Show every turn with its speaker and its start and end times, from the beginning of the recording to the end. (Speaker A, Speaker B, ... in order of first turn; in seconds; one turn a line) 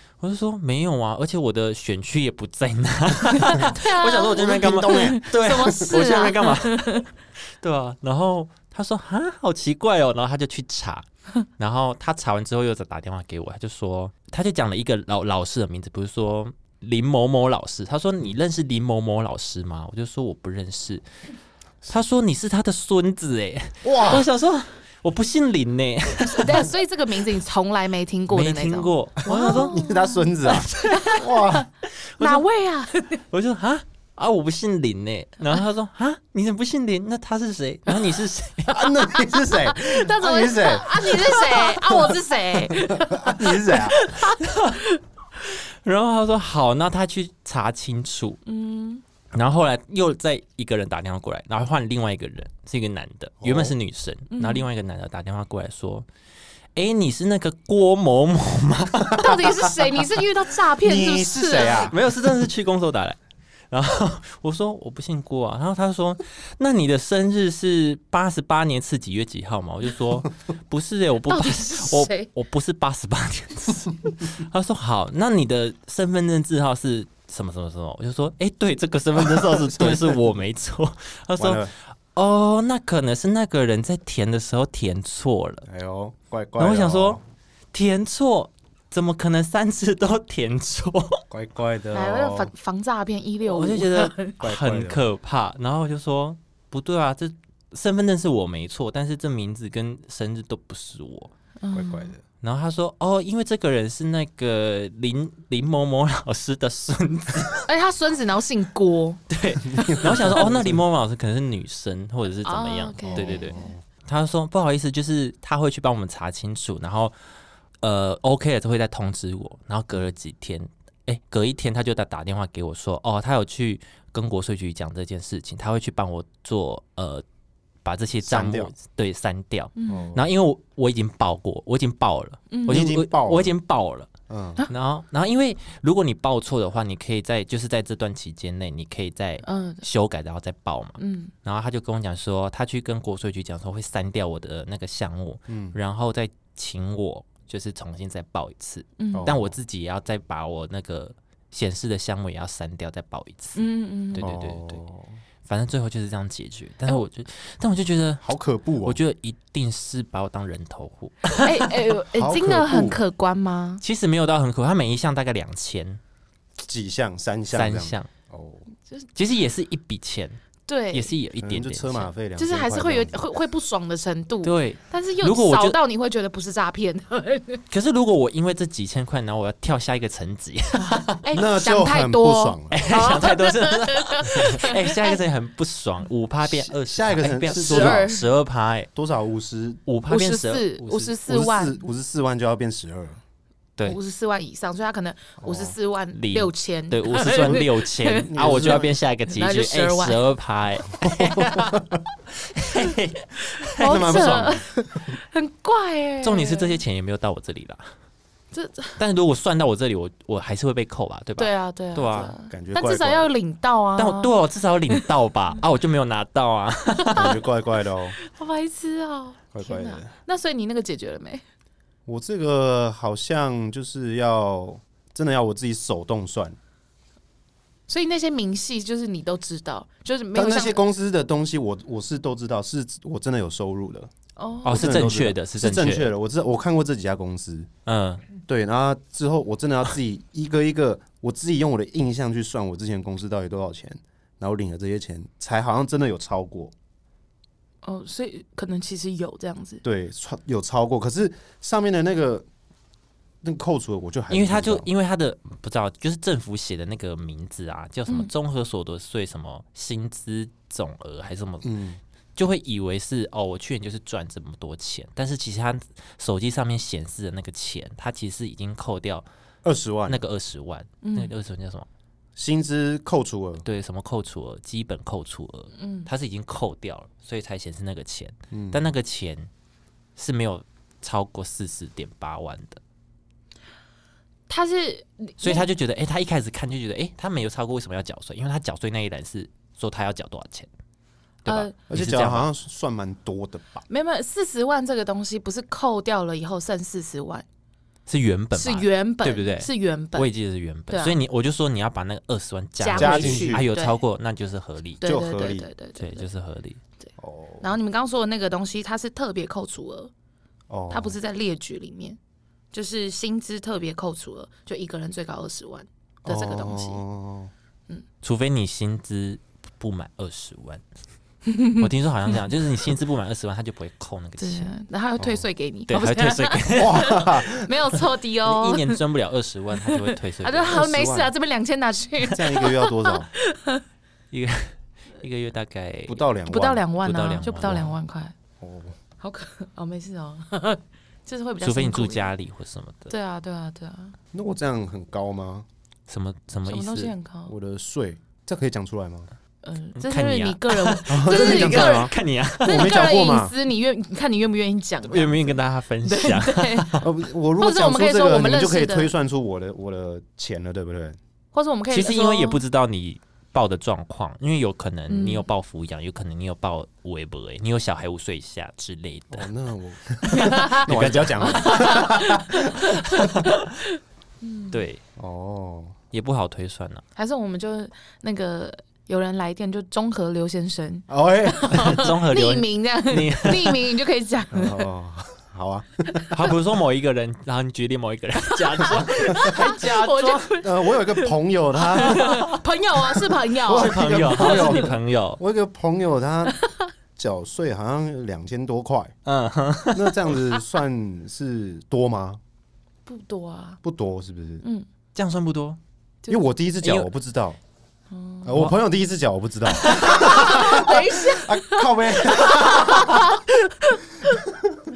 Speaker A: 0.2-7.1
Speaker B: 3.3-7.1
Speaker C: 4.4-6.0
Speaker A: 7.6-21.0
Speaker A: 21.9-26.7
Speaker C: 23.8-24.2
Speaker B: 26.2-30.4
Speaker A: 28.3-29.8
Speaker C: 29.3-31.6
Speaker A: 30.4-31.3
Speaker B: 30.9-31.6
Speaker A: 32.0-32.4
Speaker B: 32.2-33.2
Speaker A: 33.3-38.8
Speaker C: 38.7-42.1
Speaker B: 39.0-45.0
Speaker C: 42.7-44.0
Speaker A: 44.3-44.8
Speaker A: 45.5-48.4
Speaker B: 48.5-49.0
Speaker A: 49.3-56.1
Speaker C: 53.4-53.7
Speaker B: 54.3-54.7
Speaker A: 56.7-59.3
Speaker B: 59.2-61.9
Speaker C: 60.8-62.0
Speaker A: 61.8-63.2
Speaker A: 63.7-85.7
Speaker B: 71.3-72.3
Speaker C: 79.1-80.3
Speaker C: 81.4-81.7
Speaker C: 85.6-87.2
Speaker A: 86.6-87.2
Speaker A: 87.7-91.2
Speaker C: 91.3-92.5
Speaker B: 91.9-94.3
Speaker A: 93.4-101.3
Speaker C: 94.4-95.0
Speaker B: 101.6-102.1
Speaker C: 101.7-102.2
Speaker A: 102.4-107.6
Speaker B: 107.6-109.2
Speaker A: 109.3-117.2
Speaker C: 109.7-110.8
Speaker B: 109.8-110.1
Speaker B: 112.4-113.7
Speaker C: 113.0-113.8
Speaker A: 117.8-127.2
Speaker A: 127.8-134.1
Speaker C: 128.2-128.7
Speaker B: 129.8-130.1
Speaker C: 129.9-130.2
Speaker B: 132.5-132.9
Speaker C: 132.7-133.5
Speaker C: 134.3-134.6
Speaker A: 134.7-153.6
Speaker B: 139.4-139.8
Speaker B: 141.0-141.3
Speaker C: 145.5-145.8
Speaker B: 149.0-149.3
Speaker C: 149.1-149.5
Speaker B: 153.6-154.3
Speaker A: 154.1-154.8
Speaker C: 154.2-155.2
Speaker A: 155.4-158.2
Speaker C: 158.2-159.0
Speaker A: 158.8-161.4
Speaker B: 161.3-163.8
Speaker C: 162.1-163.0
Speaker A: 163.8-166.0
Speaker C: 166.6-168.7
Speaker A: 167.5-168.1
Speaker A: 169.1-170.4
Speaker B: 170.7-171.1
Speaker A: 170.9-172.1
Speaker C: 171.4-173.2
Speaker B: 172.4-177.6
Speaker A: 174.4-175.8
Speaker A: 177.7-181.2
Speaker B: 180.8-185.2
Speaker C: 181.3-182.9
Speaker A: 182.7-188.9
Speaker C: 186.4-188.1
Speaker B: 187.5-188.3
Speaker C: 188.9-189.8
Speaker A: 189.8-191.1
Speaker B: 190.1-191.9
Speaker C: 191.0-193.2
Speaker B: 193.8-200.2
Speaker C: 195.4-195.8
Speaker A: 196.1-204.6
Speaker C: 198.2-198.9
Speaker C: 201.0-202.0
Speaker B: 203.8-206.8
Speaker C: 203.8-205.1
Speaker A: 206.2-207.9
Speaker B: 208.5-209.0
Speaker A: 209.0-212.3
Speaker B: 211.4-214.3
Speaker C: 212.5-213.3
Speaker A: 214.0-217.3
Speaker B: 217.0-217.4
Speaker C: 217.1-218.2
Speaker B: 218.2-221.4
Speaker C: 219.5-220.1
Speaker C: 222.1-226.6
Speaker B: 227.9-230.8
Speaker C: 230.3-234.1
Speaker B: 234.4-235.0
Speaker A: 234.6-236.1
Speaker C: 234.7-237.7
Speaker A: 237.8-238.2
Speaker C: 238.4-246.7
Speaker B: 247.8-249.8
Speaker C: 249.8-252.5
Speaker C: 253.4-254.9
Speaker A: 254.3-261.7
Speaker C: 261.6-262.0
Speaker A: 262.4-269.3
Speaker C: 269.6-270.2
Speaker A: 270.1-271.9
Speaker B: 271.0-271.3
Speaker C: 272.4-273.6
Speaker A: 273.6-279.5
Speaker B: 275.8-276.1
Speaker C: 278.5-278.8
Speaker A: 280.2-282.8
Speaker B: 284.5-285.6
Speaker A: 285.4-290.7
Speaker A: 291.4-292.5
Speaker B: 291.4-291.7
Speaker C: 291.9-293.8
Speaker B: 293.9-297.4
Speaker A: 298.1-305.0
Speaker B: 298.5-300.3
Speaker B: 300.9-301.2
Speaker B: 302.8-304.0
Speaker C: 302.9-303.6
Speaker B: 305.0-306.2
Speaker C: 305.0-305.7
Speaker A: 306.0-306.8
Speaker B: 307.0-310.1
Speaker C: 307.2-307.7
Speaker C: 310.7-311.1
Speaker B: 310.9-312.2
Speaker B: 312.7-317.0
Speaker C: 316.2-317.5
Speaker A: 318.2-320.8
Speaker B: 321.5-322.4
Speaker A: 321.8-324.7
Speaker B: 324.4-329.0
Speaker C: 325.2-325.4
Speaker A: 325.9-327.2
Speaker C: 326.7-327.7
Speaker A: 328.4-330.8
Speaker B: 329.8-333.8
Speaker C: 330.7-331.3
Speaker C: 332.2-333.3
Speaker A: 334.3-336.2
Speaker C: 336.1-336.8
Speaker B: 336.5-338.3
Speaker A: 337.0-337.9
Speaker C: 338.6-338.9
Speaker B: 339.2-342.3
Speaker A: 341.6-343.1
Speaker B: 343.1-344.2
Speaker C: 344.3-345.7
Speaker A: 346.1-347.1
Speaker B: 346.6-347.5
Speaker C: 347.5-349.3
Speaker B: 349.6-356.9
Speaker A: 349.9-353.0
Speaker C: 351.1-353.5
Speaker A: 355.1-357.1
Speaker C: 357.0-361.2
Speaker B: 357.6-359.1
Speaker B: 361.5-362.6
Speaker A: 361.9-369.5
Speaker B: 365.1-365.5
Speaker C: 369.3-372.9
Speaker A: 370.3-372.1
Speaker B: 370.3-373.9
Speaker A: 373.1-373.7
Speaker B: 374.4-374.8
Speaker A: 374.7-375.0
Speaker C: 375.2-375.9
Speaker A: 376.1-377.0
Speaker B: 377.1-384.9
Speaker C: 381.1-382.0
Speaker A: 381.7-383.8
Speaker C: 384.5-386.4
Speaker A: 386.3-390.5
Speaker B: 388.8-394.9
Speaker C: 390.6-392.4
Speaker A: 392.1-392.6
Speaker C: 393.5-396.6
Speaker A: 393.7-395.4
Speaker C: 397.1-399.1
Speaker A: 399.2-400.3
Speaker C: 399.9-402.4
Speaker B: 403.1-403.8
Speaker C: 403.8-404.6
Speaker A: 405.1-405.8
Speaker B: 406.2-406.5
Speaker C: 406.3-407.6
Speaker A: 406.8-407.1
Speaker B: 408.1-408.5
Speaker C: 408.4-413.2
Speaker A: 409.8-410.3
Speaker B: 409.9-414.4